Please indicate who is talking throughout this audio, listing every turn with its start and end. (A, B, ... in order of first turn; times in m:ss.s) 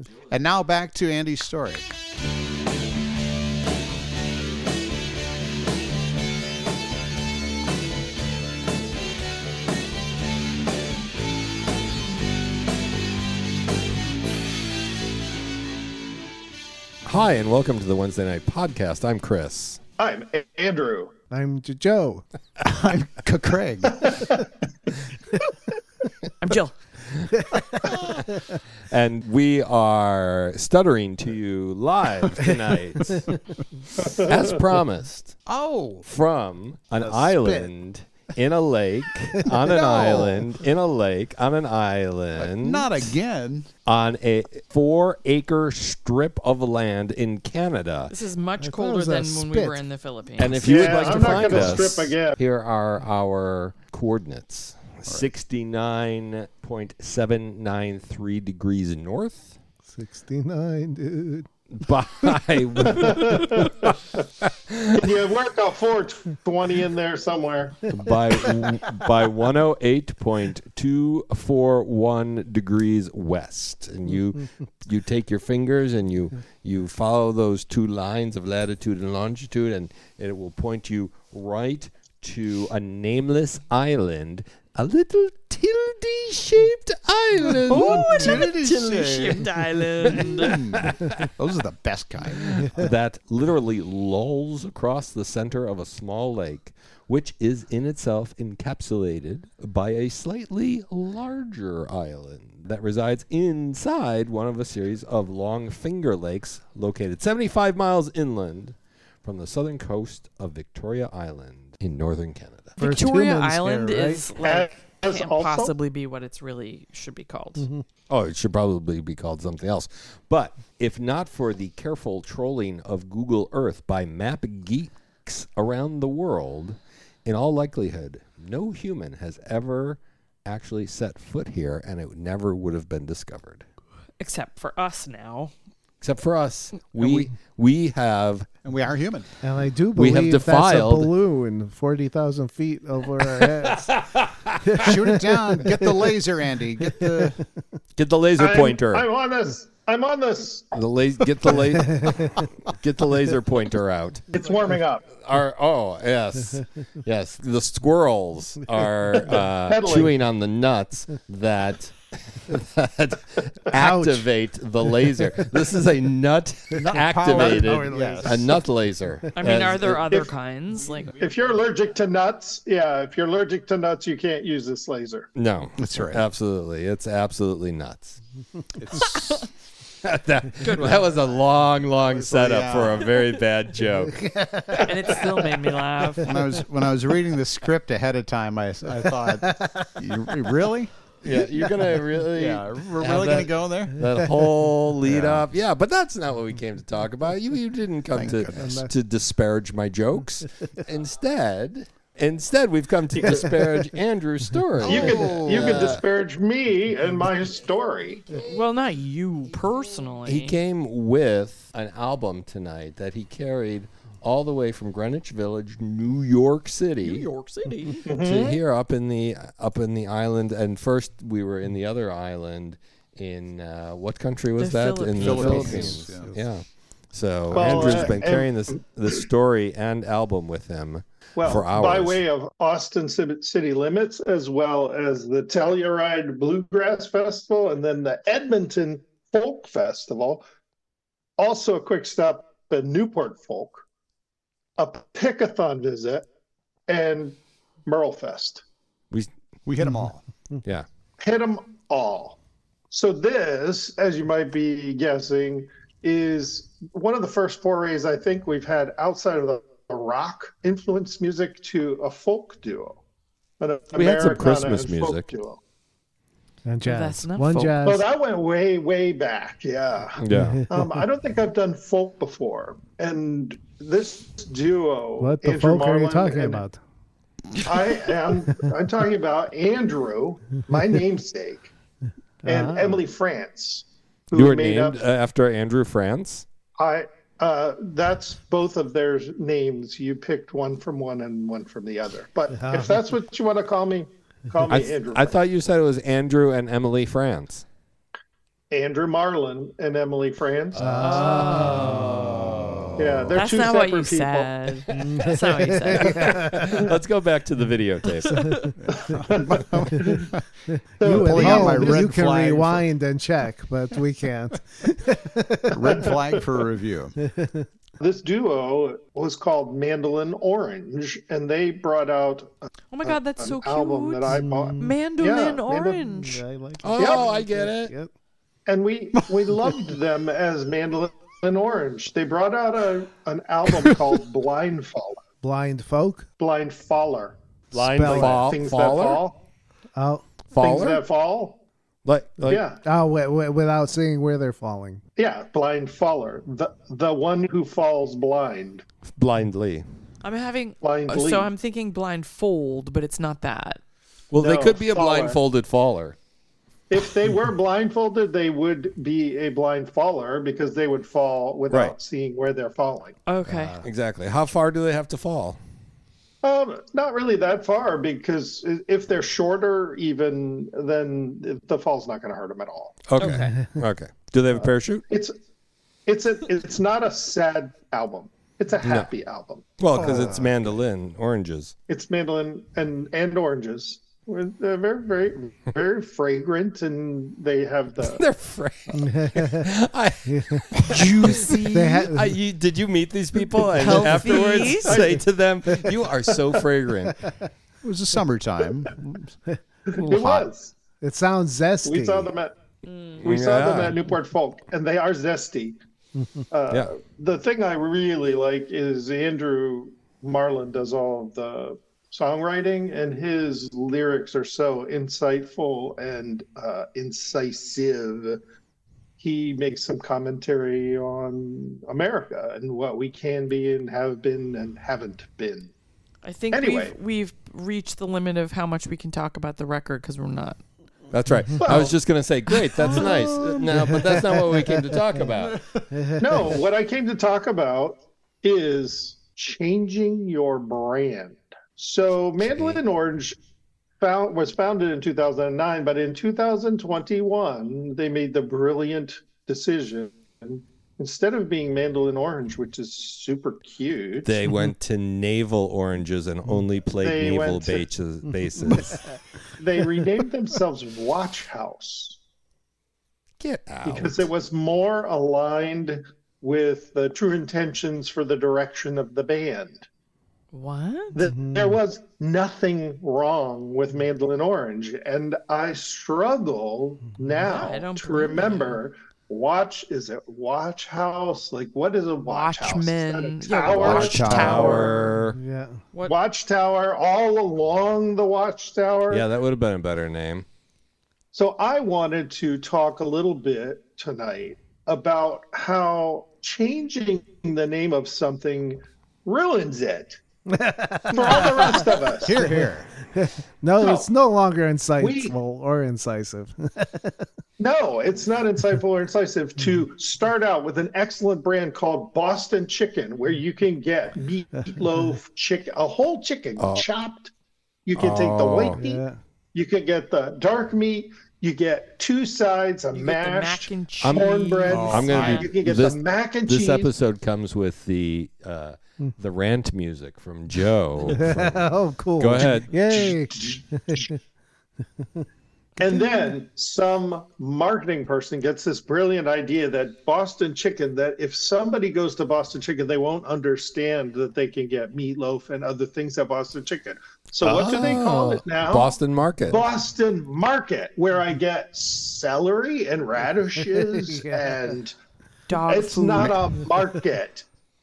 0:00.3-0:01.9 A
0:17.0-0:19.8 B
0:20.0-0:21.1 C
0:21.3-0:22.2 D
0:22.6-0:24.1 A
0:23.9-0:24.4 C
0:26.4-0:26.8 E
0:27.4-0:27.7 D
0:27.8-0:28.3 B
0:28.3-0:28.6 D
0:28.9-0:33.3 B
0:33.0-0:33.3 A
0:34.0-0:34.5 C
0:34.0-0:35.4 B
0:35.5-0:36.1 A
0:36.0-0:43.1 B
0:37.0-0:37.7 D
0:39.6-0:40.5 A
0:42.4-0:43.7 A
0:43.9-0:48.2 B
0:48.1-0:50.7 E
0:48.6-0:49.8 D
0:50.4-0:59.6 B
0:50.6-0:52.4 C
0:51.3-0:51.7 D
0:59.9-1:01.5 D
1:01.7-1:05.2 B
1:03.0-1:03.7 C
1:04.9-1:07.9 C
1:07.9-1:28.5 B
1:27.7-1:30.6 E
1:27.7-1:32.8 A
1:30.0-1:31.3 B
1:32.6-1:52.8 B
1:52.8-1:57.7 E
1:52.8-1:54.3 D
1:54.4-1:55.7 C
1:58.1-2:13.6 B
2:14.2-2:15.5 E
2:16.0-2:18.5 B
2:17.0-2:17.3 A
2:18.6-2:19.3 A
2:19.4-2:23.9 D
2:20.0-2:21.1 B
2:23.4-2:24.9 B
2:24.6-2:26.0 D
2:24.8-2:27.4 A
2:28.0-2:29.1 B
2:28.4-2:30.8 C
2:30.7-2:34.2 B
2:31.8-2:32.3 D
2:34.3-2:35.1 C
2:35.2-2:50.2 B
2:39.6-2:40.1 C
2:43.7-2:44.3 D
2:46.8-2:48.6 A
2:47.3-2:48.5 D
2:49.4-2:51.2 E
2:51.2-2:55.3 C
2:55.4-2:58.2 B
2:55.8-2:56.2 A
2:58.8-2:59.4 A
2:58.9-2:59.4 B
3:00.0-3:05.2 B
3:00.6-3:01.0 E
3:00.7-3:01.2 A
3:02.0-3:03.1 A
3:04.1-3:05.2 D
3:04.8-3:06.3 E
3:06.2-3:10.9 A
3:09.2-3:10.0 D
3:11.2-3:26.0 B
3:12.3-3:14.0 A
3:15.1-3:15.5 A
3:18.1-3:18.8 A
3:18.5-3:18.9 D
3:23.1-3:23.5 C
3:24.8-3:25.9 A
3:24.8-3:28.4 C
3:28.4-3:30.6 E
3:30.2-3:37.3 B
3:37.0-3:38.1 E
3:38.1-3:38.6 C
3:38.1-3:52.2 B
3:44.6-3:46.0 E
3:45.2-3:46.3 A
3:47.5-3:48.8 C
3:51.4-4:00.4 C
4:01.4-4:03.8 C
4:04.8-4:06.3 C
4:06.9-4:08.6 C
4:09.7-4:10.2 A
4:11.2-4:12.4 C
4:12.9-4:23.0 C
4:23.6-4:25.6 C
4:23.9-4:25.3 B
4:26.7-4:28.0 D
4:26.8-4:27.8 E
4:27.8-4:36.6 C
4:30.2-4:30.6 B
4:30.3-4:31.0 D
4:35.2-4:36.8 D
4:37.6-4:41.7 C
4:42.4-4:43.0 D
4:42.4-4:45.0 C
4:44.3-4:46.5 B
4:46.8-4:55.4 C
4:52.6-4:53.0 D
4:54.7-4:57.6 B
4:58.7-5:00.8 C
5:00.7-5:03.3 B
5:00.8-5:02.4 D
5:01.0-5:02.0 E
5:02.0-5:03.3 A
5:03.0-5:04.5 C
5:03.3-5:06.3 E
5:04.9-5:05.3 B
5:04.9-5:06.8 D
5:05.9-5:08.5 B
5:08.2-5:08.7 E
5:08.8-5:10.5 A
5:08.9-5:10.3 C
5:11.0-5:12.0 C
5:11.0-5:16.0 D
5:11.0-5:12.9 A
5:15.7-5:17.2 A
5:15.8-5:16.4 C
5:17.2-5:17.7 D
5:18.0-5:22.5 C
5:22.9-5:26.4 E
5:23.0-5:26.1 C
5:24.3-5:25.0 D
5:26.1-5:28.1 D
5:26.8-5:27.9 B
5:27.0-5:27.3 C
5:28.7-5:35.2 C
5:33.7-5:34.0 A
5:35.4-5:36.3 D
5:36.4-5:39.4 C
5:37.7-5:39.2 B
5:37.8-5:38.4 D
5:40.0-5:40.3 D
5:40.5-5:41.0 B
5:40.6-5:41.6 C
5:42.0-5:42.6 B
5:42.4-5:42.8 C
5:42.8-5:45.0 D
5:45.2-5:48.8 C
5:49.1-5:49.8 B
5:50.2-5:53.8 E
5:50.8-5:51.5 C
5:54.3-5:56.2 B
5:54.4-5:55.4 C
5:56.9-6:03.2 C
6:01.7-6:02.0 B
6:03.3-6:03.8 E
6:03.8-6:05.6 B
6:06.4-6:13.0 C
6:13.1-6:15.0 B
6:13.2-6:13.6 E
6:15.1-6:15.4 C
6:16.1-6:20.2 C
6:18.8-6:19.1 B
6:19.8-6:21.7 B
6:20.0-6:20.5 A
6:21.9-6:28.2 C
6:28.0-6:37.2 B
6:28.9-6:29.7 D
6:30.3-6:32.3 D
6:33.7-6:35.0 E
6:34.8-6:35.2 C
6:36.3-6:36.6 C
6:37.8-6:39.4 A
6:39.9-6:40.7 C
6:40.0-6:40.5 A
6:41.0-6:42.3 D
6:41.8-6:42.5 C
6:42.8-6:43.3 E
6:43.2-6:44.0 B
6:43.2-6:45.8 C
6:46.2-6:46.4 D
6:46.5-6:58.4 C
6:59.2-7:05.7 C
7:06.2-7:10.6 E
7:06.5-7:06.9 C
7:11.1-7:15.6 B
7:11.6-7:12.0 C
7:12.8-7:13.1 E
7:13.0-7:13.6 A
7:15.4-7:15.9 A
7:16.0-7:16.3 D
7:16.2-7:23.4 C
7:22.4-7:22.8 B
7:24.0-7:34.4 C
7:34.2-7:39.1 B
7:37.0-7:37.9 C
7:39.6-7:42.2 C
7:43.4-7:44.3 B
7:43.8-7:49.9 C
7:50.5-7:51.2 E
7:51.1-8:04.9 C
7:51.3-7:51.8 D
7:57.4-7:58.8 E
8:02.2-8:05.1 E
8:03.7-8:04.8 A
8:03.8-8:05.4 B
8:05.3-8:05.8 D
8:06.0-8:09.2 C
8:09.1-8:10.5 B
8:11.3-8:20.2 C
8:20.5-8:27.2 D
8:21.1-8:22.4 C
8:22.2-8:22.9 A
8:23.8-8:24.1 C
8:25.0-8:25.4 C
8:27.6-8:37.3 C
8:36.6-8:36.9 B
8:37.9-8:39.0 C
8:38.0-8:38.8 B
8:38.7-8:39.2 D
8:39.5-8:46.9 C
8:42.9-8:45.5 E
8:44.0-8:44.3 B
8:44.7-8:45.4 A
8:44.9-8:52.7 B
8:51.1-8:54.2 D
8:52.9-8:54.1 C
8:55.0-8:55.2 D
8:55.8-9:08.9 C
9:07.4-9:09.6 B
9:09.5-9:15.0 C
9:13.7-9:14.6 D
9:15.5-9:16.4 E
9:15.6-9:17.4 C